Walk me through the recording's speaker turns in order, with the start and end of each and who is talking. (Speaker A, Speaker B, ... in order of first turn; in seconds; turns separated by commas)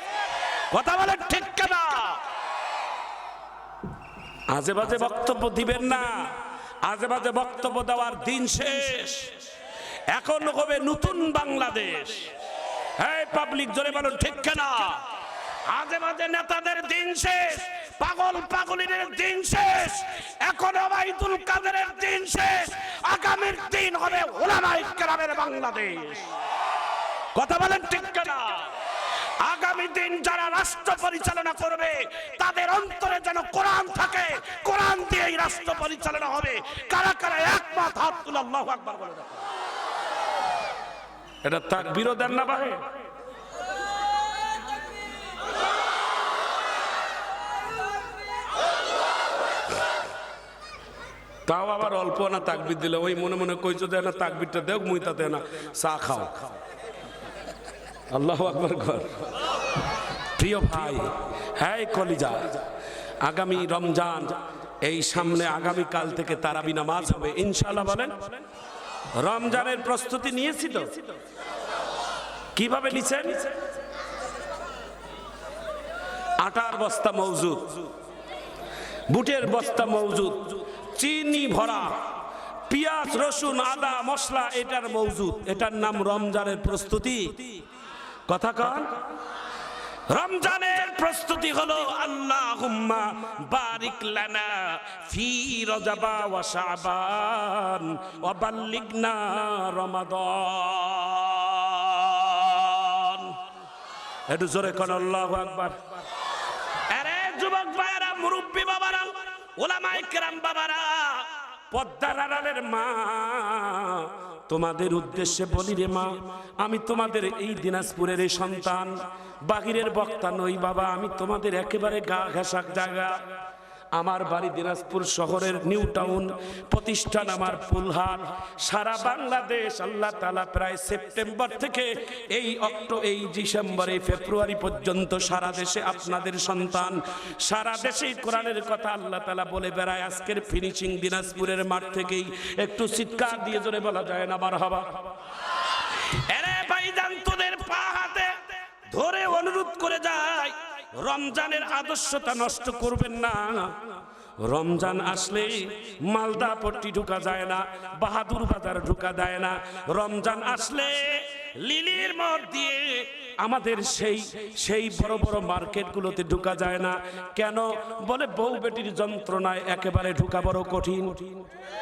Speaker A: 0.7-2.2, Speaker A: 4.5-6.3, Speaker A: 6.8-9.3, Speaker A: 10.1-12.3, Speaker A: 13.0-15.1, Speaker A: 15.7-26.3, Speaker A: 27.3-28.7, Speaker A: 29.4-39.4, Speaker A: 41.4-42.8, Speaker A: 51.5-56.4, Speaker A: 58.1-59.1, Speaker A: 60.4-62.6, Speaker A: 63.2-68.2, Speaker A: 69.2-71.0, Speaker A: 72.5-73.5, Speaker A: 76.4-77.9, Speaker A: 79.1-82.1, Speaker A: 82.7-87.5, Speaker A: 88.3-88.9, Speaker A: 90.1-103.4, Speaker A: 104.3-105.8, Speaker A: 106.9-123.2, Speaker A: 124.0-145.0, Speaker A: 146.0-171.4